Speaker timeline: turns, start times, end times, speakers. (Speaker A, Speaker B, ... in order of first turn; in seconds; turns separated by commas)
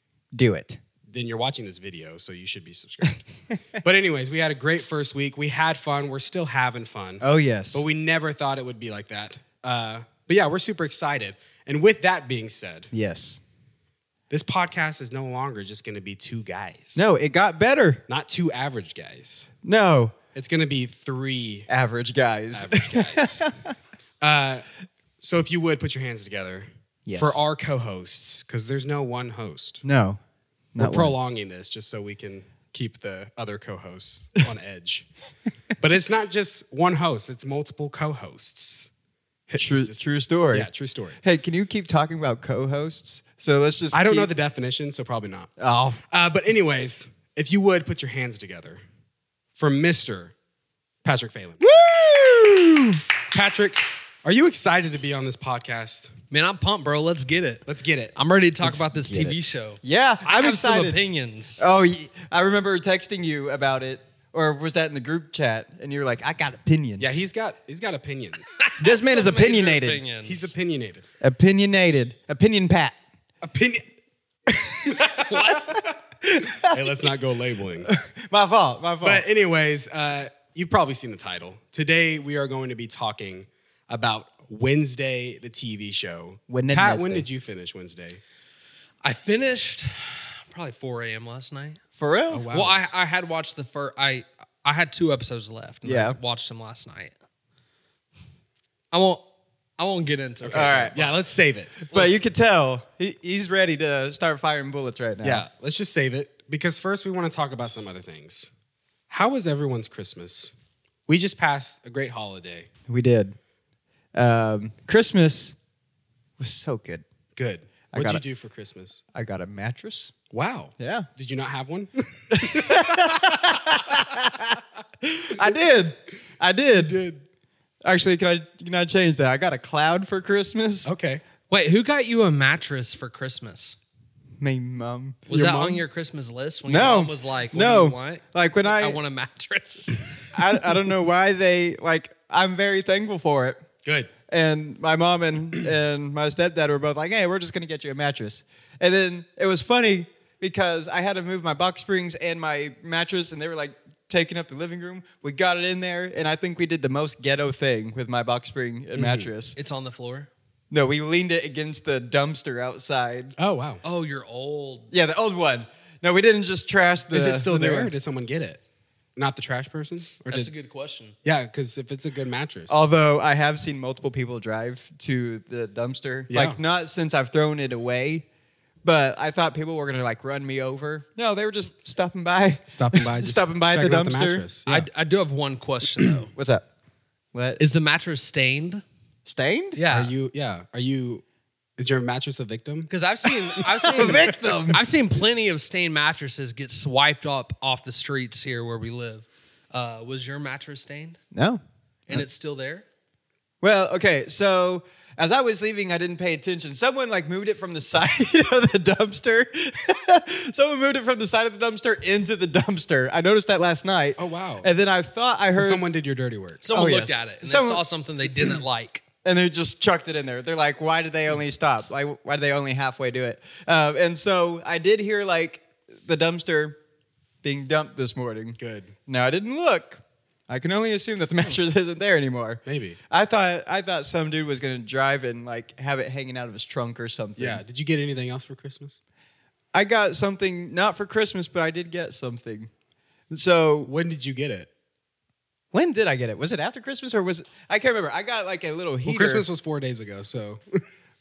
Speaker A: 0.3-0.8, Speaker B: 1.1-3.2, Speaker B: 3.8-12.9, Speaker A: 7.2-7.9, Speaker A: 12.9-13.4, Speaker B: 14.3-17.1, Speaker A: 17.0-18.0, Speaker B: 18.1-19.5, Speaker A: 19.6-20.1, Speaker B: 20.3-21.7, Speaker A: 21.7-23.7, Speaker B: 22.5-23.5, Speaker B: 24.2-24.7, Speaker B: 25.2-29.8, Speaker A: 27.1-27.4, Speaker A: 29.8-30.2, Speaker A: 30.7-31.1, Speaker B: 30.8-35.1, Speaker B: 35.8-38.9, Speaker B: 39.5-41.2, Speaker A: 39.6-40.7, Speaker A: 41.2-44.3, Speaker B: 43.9-45.5, Speaker A: 45.6-46.0, Speaker B: 46.1-48.8, Speaker B: 49.6-50.3, Speaker B: 51.0-51.7, Speaker A: 51.6-53.0, Speaker B: 53.3-56.1, Speaker C: 56.3-61.6, Speaker B: 57.7-58.1, Speaker A: 58.6-61.0, Speaker A: 61.6-67.2, Speaker B: 67.0-68.6, Speaker C: 68.6-70.5, Speaker A: 68.8-70.0, Speaker B: 70.2-71.1, Speaker A: 71.2-73.0, Speaker B: 73.4-73.9, Speaker B: 74.5-76.0, Speaker C: 75.2-75.8, Speaker A: 75.7-77.1, Speaker B: 76.6-77.9, Speaker A: 77.8-79.2, Speaker B: 79.0-88.2, Speaker A: 86.5-87.2, Speaker C: 89.0-91.8, Speaker A: 92.0-92.5, Speaker B: 92.3-92.8, Speaker C: 92.5-97.1, Speaker A: 95.8-96.2, Speaker C: 98.9-101.0, Speaker B: 100.4-101.8, Speaker A: 100.5-101.1, Speaker C: 101.9-102.2, Speaker A: 101.9-105.5, Speaker B: 105.2-108.5, Speaker B: 109.1-110.5, Speaker B: 111.1-112.7, Speaker A: 112.9-113.4, Speaker A: 114.2-115.6, Speaker A: 116.4-117.0, Speaker B: 117.4-119.0, Speaker A: 117.9-118.2, Speaker A: 119.1-120.1, Speaker B: 120.3-124.1, Speaker A: 120.8-121.1, Speaker A: 122.3-127.0, Speaker B: 126.8-127.2, Speaker A: 127.8-130.9, Speaker B: 130.8-131.2, Speaker C: 131.5-133.8, Speaker A: 134.4-135.5, Speaker C: 135.2-140.1, Speaker B: 135.3-135.8, Speaker A: 136.7-139.0, Speaker A: 140.3-143.7, Speaker B: 143.8-144.1, Speaker A: 144.3-159.6, Speaker B: 159.0-159.3, Speaker C: 159.6-160.3, Speaker A: 160.7-163.4, Speaker B: 163.4-163.8, Speaker C: 163.8-164.9, Speaker A: 164.9-167.9, Speaker B: 167.1-168.6, Speaker B: 169.2-170.5, Speaker C: 170.3-171.2, Speaker B: 171.2-172.8, Speaker A: 172.7-178.2, Speaker B: 176.3-176.6, Speaker A: 178.8-184.5, Speaker B: 182.7-184.9, Speaker C: 184.7-186.3, Speaker A: 186.3-186.7, Speaker A: 187.3-187.6, Speaker C: 187.6-188.8, Speaker A: 189.2-189.8, Speaker C: 189.8-190.1, Speaker B: 189.9-191.2, Speaker B: 191.8-192.9, Speaker C: 192.9-201.2, Speaker B: 193.6-194.5, Speaker A: 193.8-194.8, Speaker A: 201.3-202.2, Speaker C: 202.1-202.9, Speaker A: 203.6-215.8, Speaker B: 214.2-214.7, Speaker B: 215.5-216.7, Speaker C: 216.6-219.0, Speaker A: 216.7-217.8, Speaker A: 219.2-226.8, Speaker A: 227.4-237.6, Speaker B: 228.6-228.9, Speaker B: 232.7-233.0, Speaker B: 237.4-239.0, Speaker A: 239.7-242.7, Speaker A: 243.3-243.9, Speaker B: 243.8-244.7, Speaker A: 245.7-249.5, Speaker B: 249.0-250.8